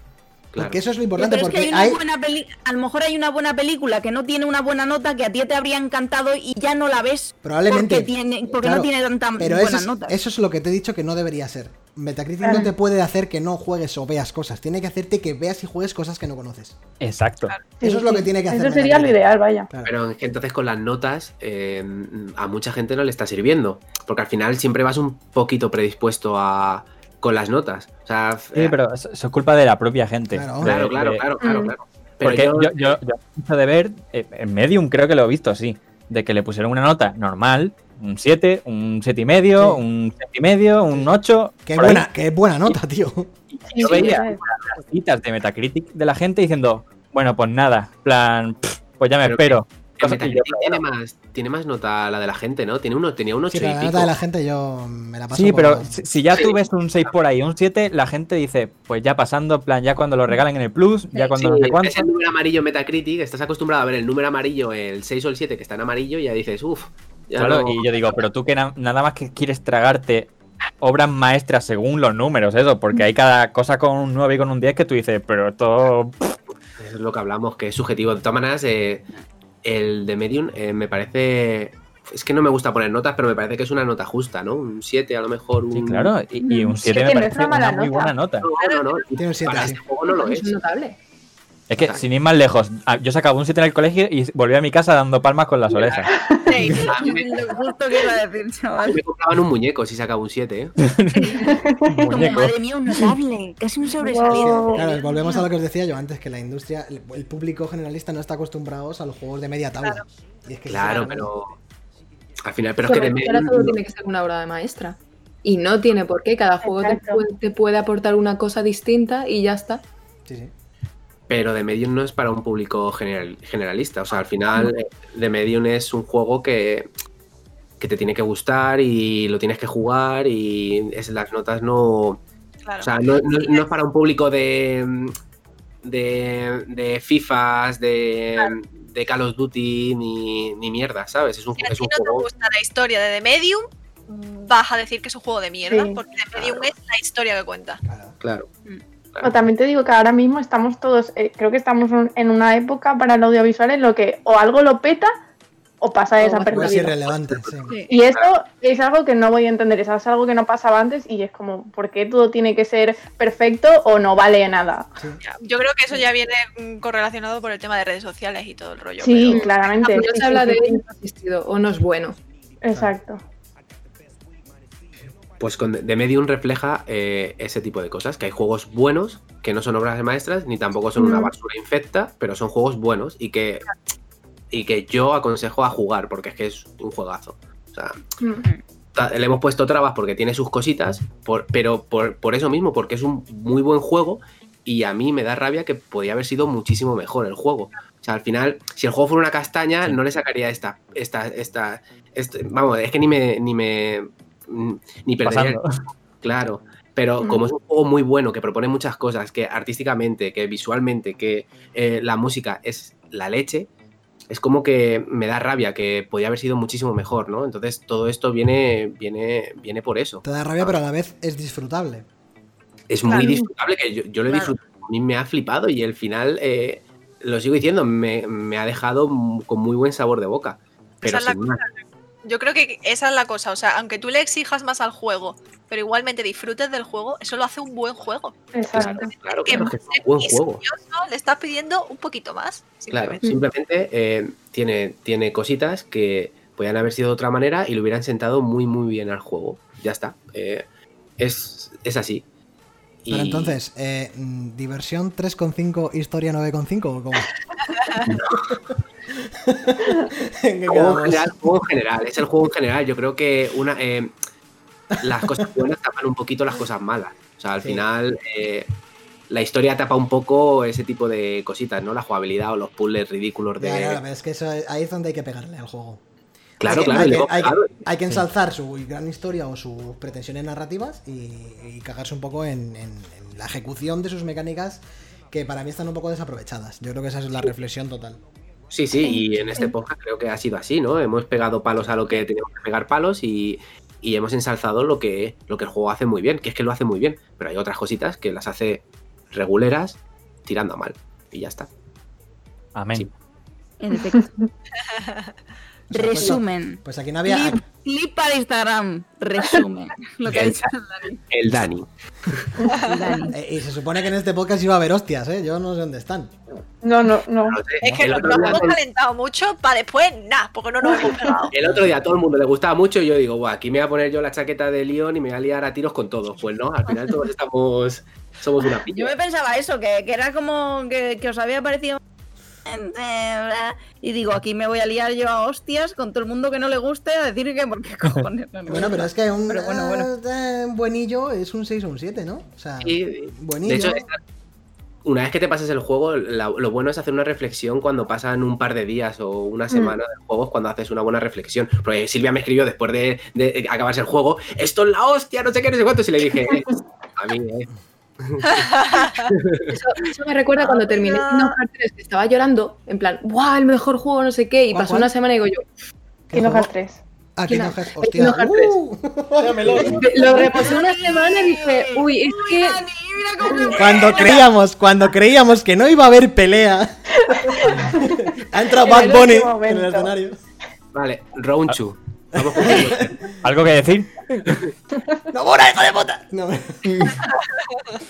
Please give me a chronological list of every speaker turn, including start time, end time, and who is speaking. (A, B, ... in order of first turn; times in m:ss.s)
0:00.5-0:00.8 A
0:00.6-0:02.0 B
0:01.2-0:10.2 C
0:07.4-0:16.8 B
0:17.0-0:17.5 D
0:17.8-0:19.7 E
0:17.8-0:19.2 B
0:19.8-0:28.8 A
0:28.6-0:31.2 D
0:30.3-0:30.7 B
0:30.6-0:33.0 A
0:31.4-0:31.7 E
0:32.2-0:42.0 D
0:40.9-0:43.3 B
0:43.5-0:50.8 D
0:43.7-0:44.4 E
0:49.2-0:54.1 A
0:53.5-0:56.0 B
0:55.3-1:02.1 D
1:01.2-1:08.2 A
1:07.4-1:16.4 D
1:16.8-1:19.0 A
1:19.6-1:26.1 A
1:25.7-1:28.5 D
1:26.5-1:28.1 E
1:28.4-1:30.5 A
1:28.6-1:29.0 F
1:29.1-1:29.8 B
1:30.1-1:31.0 G
1:31.7-1:36.1 D
1:35.7-1:36.1 A
1:36.1-1:36.4 E
1:36.4-1:36.9 F
1:36.8-1:39.0 C
1:36.8-1:37.6 A
1:38.8-1:40.8 A
1:40.8-1:42.5 D
1:41.2-1:45.5 C
1:41.4-1:41.8 E
1:44.0-1:44.8 E
1:44.3-1:51.3 B
1:50.7-1:51.6 A
1:52.4-1:53.8 A
1:52.8-1:59.8 G
1:56.6-1:57.2 E
2:00.2-2:00.5 B
2:01.3-2:06.9 A
2:07.8-2:12.2 A
2:12.6-2:13.6 F
2:12.8-2:15.1 A
2:15.8-2:22.2 A
2:21.6-2:27.8 F
2:25.7-2:26.0 E
2:26.4-2:26.7 A
2:27.8-2:28.2 B
2:28.2-2:28.5 A
2:29.2-2:35.1 E
2:35.8-2:37.0 E
2:36.2-2:36.9 G
2:36.4-2:37.7 B
2:37.3-2:38.3 A
2:37.9-2:44.9 E
2:45.2-2:49.7 F
2:49.0-2:50.8 E
2:49.8-2:52.2 G
2:52.6-2:53.2 E
2:55.4-3:03.7 A
3:01.0-3:01.3 E
3:04.5-3:08.0 A
3:08.9-3:25.6 A
3:25.2-3:25.7 D
3:26.2-3:33.7 A
3:34.3-3:40.8 A
3:40.2-3:42.1 B
3:42.9-3:51.6 A
3:43.1-3:43.4 F
3:43.1-3:43.4 E
3:44.3-3:44.5 C
3:51.0-4:03.3 F
3:58.5-3:59.6 E
3:58.7-4:00.6 A
4:02.9-4:10.6 A
4:11.2-4:12.2 A
4:13.0-4:13.6 A
4:13.1-4:17.3 B
4:18.1-4:18.5 A
4:18.1-4:18.6 B
4:19.1-4:21.3 B
4:20.7-4:24.1 A
4:25.0-4:28.7 A
4:25.0-4:25.4 B
4:29.3-4:34.0 A
4:33.6-4:36.0 B
4:36.6-4:37.7 A
4:36.6-4:48.2 B
4:48.7-5:01.7 A
5:02.7-5:03.1 D
5:03.8-5:04.3 C
5:04.9-5:05.3 F
5:05.9-5:11.2 C
5:05.9-5:07.6 B
5:10.3-5:10.7 A
5:11.3-5:11.9 A
5:12.9-5:13.3 C
5:12.9-5:16.3 B
5:16.8-5:17.6 E
5:17.5-5:18.8 A
5:17.8-5:21.5 F
5:17.8-5:18.6 B
5:21.0-5:21.5 C
5:21.5-5:29.2 A
5:21.6-5:21.9 B
5:28.9-5:32.0 C
5:32.6-5:40.1 C
5:38.7-5:44.0 B
5:42.8-5:44.2 A
5:45.0-5:58.6 A
5:49.7-5:50.0 E
5:58.6-5:59.3 F
5:59.2-5:59.6 A
5:59.7-6:05.6 G
6:00.6-6:01.5 C
6:04.7-6:05.1 B
6:06.3-6:06.7 B
6:06.3-6:07.0 E
6:07.4-6:10.4 B
6:07.5-6:08.7 G
6:09.7-6:10.0 A
6:10.0-6:12.8 G
6:10.1-6:14.4 C
6:13.7-6:20.4 B
6:17.3-6:20.1 E
6:20.9-6:23.3 A
6:22.3-6:23.3 B
6:23.4-6:24.6 D
6:25.3-6:27.3 B